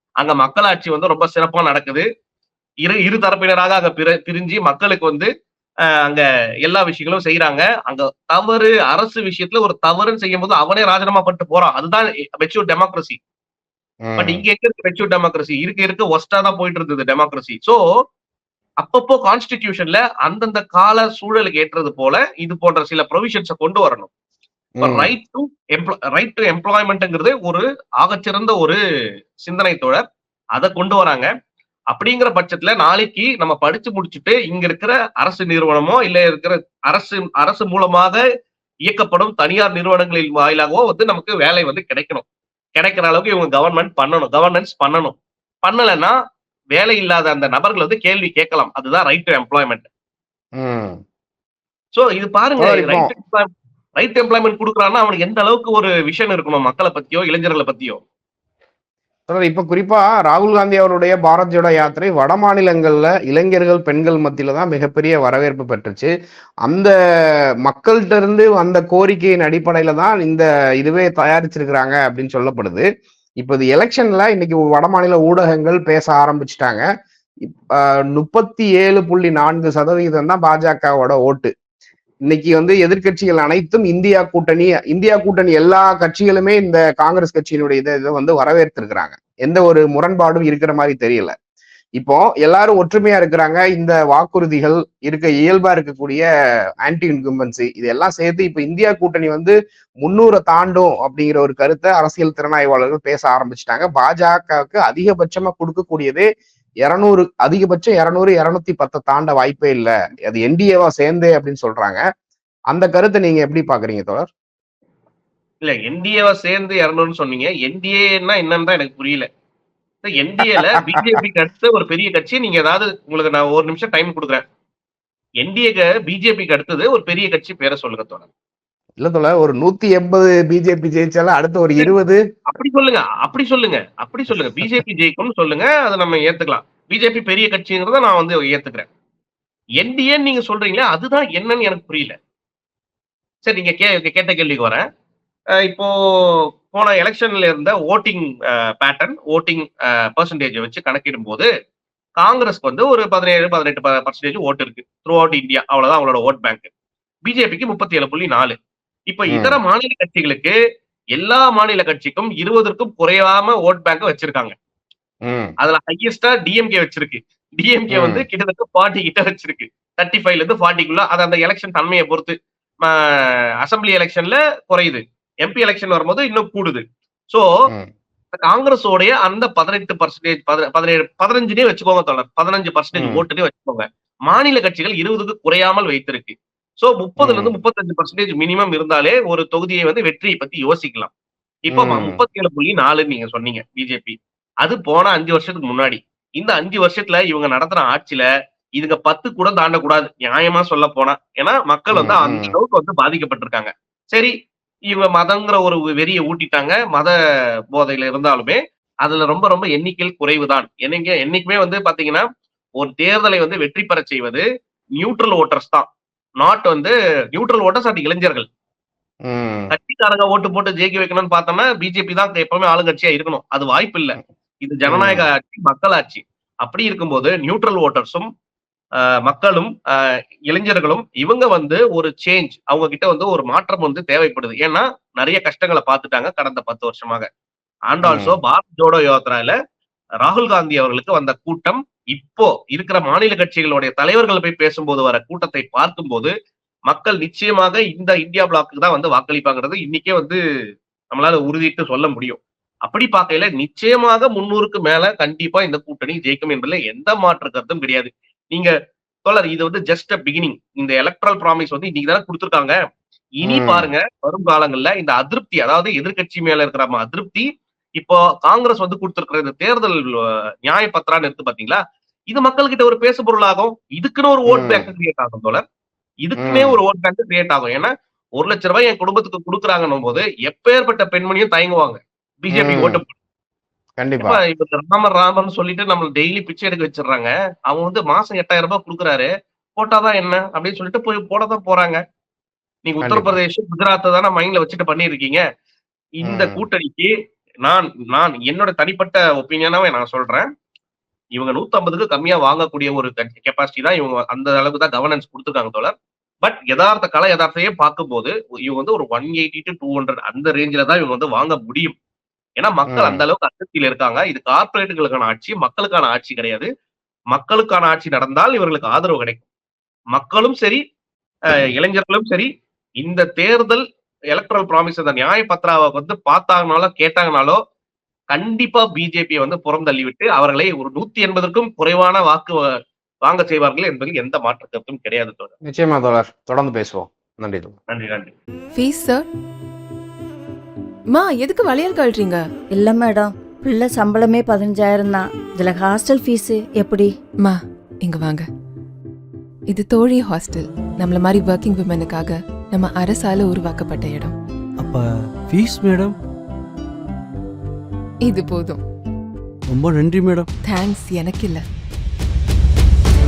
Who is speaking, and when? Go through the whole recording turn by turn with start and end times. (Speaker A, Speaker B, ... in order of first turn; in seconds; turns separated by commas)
Speaker A: 0.2-2.1, Speaker A: 2.9-5.3, Speaker A: 6.0-13.2, Speaker B: 14.1-14.4, Speaker A: 14.2-17.8, Speaker A: 18.8-24.1, Speaker B: 24.8-25.1, Speaker A: 24.8-28.8, Speaker A: 29.4-30.0, Speaker A: 30.6-31.3, Speaker A: 31.9-38.2, Speaker A: 38.9-42.2, Speaker A: 42.8-46.1, Speaker A: 46.8-49.9, Speaker B: 50.6-51.0, Speaker A: 51.9-58.0, Speaker B: 52.6-53.1, Speaker B: 59.3-66.1, Speaker B: 66.7-66.9, Speaker B: 67.7-72.9, Speaker B: 73.4-76.8, Speaker B: 77.4-81.5, Speaker B: 82.3-91.3, Speaker B: 92.0-96.3, Speaker B: 96.8-106.3, Speaker B: 106.8-112.0, Speaker B: 112.7-114.3, Speaker A: 115.6-119.3, Speaker A: 120.0-124.4, Speaker B: 120.4-121.2, Speaker A: 125.4-128.3, Speaker B: 129.0-132.2, Speaker A: 132.5-138.9, Speaker B: 134.4-134.7, Speaker A: 139.8-142.2, Speaker A: 143.5-144.9, Speaker A: 145.6-151.5, Speaker A: 152.2-156.7, Speaker A: 157.3-158.6, Speaker A: 159.1-160.6, Speaker B: 159.3-159.6, Speaker A: 161.2-164.5, Speaker B: 165.2-165.5, Speaker A: 165.6-177.5, Speaker B: 167.9-168.2, Speaker A: 178.3-191.1, Speaker B: 182.9-183.2, Speaker B: 187.2-187.5, Speaker A: 191.7-198.3, Speaker B: 191.7-192.2, Speaker A: 198.8-204.3, Speaker B: 201.9-202.5, Speaker A: 204.9-207.2, Speaker A: 207.7-212.2, Speaker A: 212.8-214.4, Speaker A: 215.0-215.9, Speaker A: 216.4-218.5, Speaker B: 219.3-219.7, Speaker A: 219.7-228.3, Speaker B: 224.9-225.3, Speaker A: 229.3-237.3, Speaker A: 237.9-239.6, Speaker B: 238.0-238.4, Speaker A: 240.2-246.3, Speaker A: 246.9-250.4, Speaker A: 251.1-258.7, Speaker A: 259.3-262.8, Speaker A: 263.4-270.0, Speaker B: 263.4-263.9, Speaker A: 270.7-271.8, Speaker A: 272.3-275.6, Speaker B: 274.5-274.9, Speaker A: 276.2-283.1, Speaker B: 276.4-276.8, Speaker B: 282.5-283.0, Speaker B: 284.0-284.4, Speaker A: 284.2-292.0, Speaker A: 292.9-295.4, Speaker B: 293.0-293.4, Speaker A: 296.2-297.1, Speaker B: 296.3-296.6, Speaker A: 297.7-300.5, Speaker A: 301.4-312.0, Speaker A: 312.6-316.7, Speaker B: 312.9-313.2, Speaker A: 317.3-319.4, Speaker A: 320.1-320.8, Speaker A: 321.5-322.5, Speaker A: 323.0-327.6, Speaker A: 328.3-332.7, Speaker A: 333.2-335.5, Speaker B: 335.6-337.8, Speaker A: 337.9-338.3, Speaker C: 338.8-339.3, Speaker C: 341.1-342.4, Speaker D: 342.8-347.1, Speaker C: 347.4-348.5, Speaker C: 349.7-354.4, Speaker E: 354.8-356.2, Speaker C: 358.3-358.8, Speaker E: 359.7-360.5, Speaker C: 360.7-361.6